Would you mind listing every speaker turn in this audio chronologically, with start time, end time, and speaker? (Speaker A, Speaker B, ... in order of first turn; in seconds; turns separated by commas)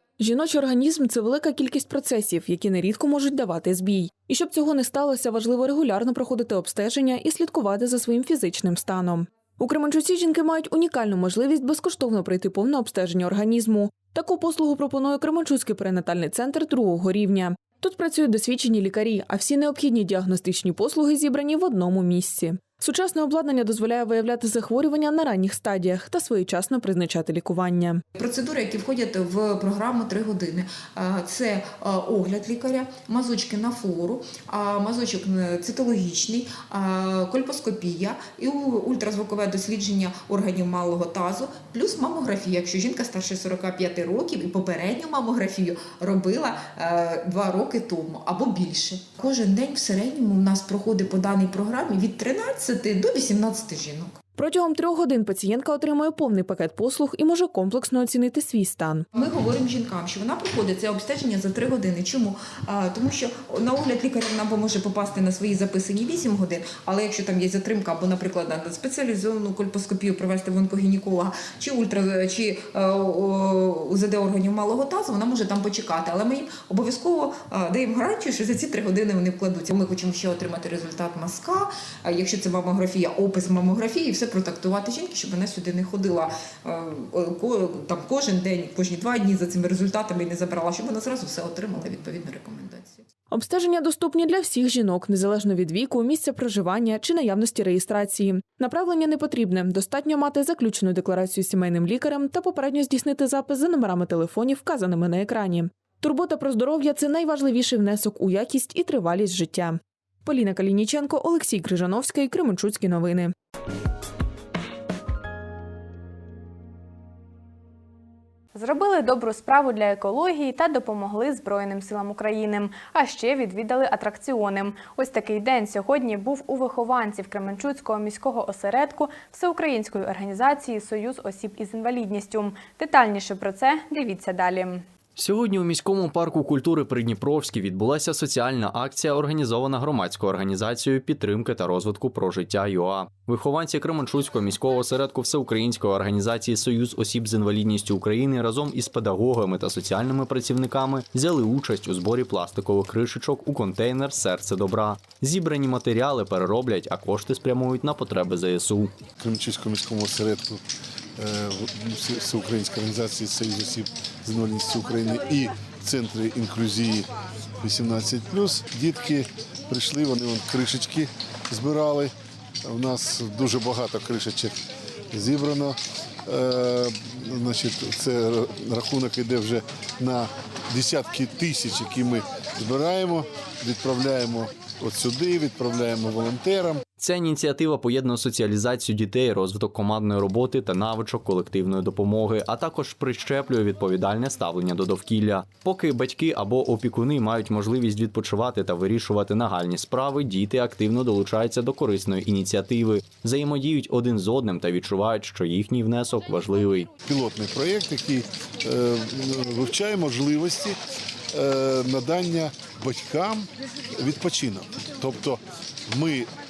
Speaker A: 0.2-28.0, Speaker B: 28.2-54.1, Speaker A: 54.4-59.1, Speaker B: 59.1-93.0, Speaker A: 93.3-113.3, Speaker C: 118.5-134.8, Speaker D: 135.2-158.9, Speaker E: 159.2-160.6, Speaker E: 161.2-167.1, Speaker E: 167.6-172.1, Speaker E: 172.7-174.6, Speaker E: 175.1-186.8, Speaker D: 187.0-206.9, Speaker E: 207.0-210.8, Speaker E: 211.3-216.3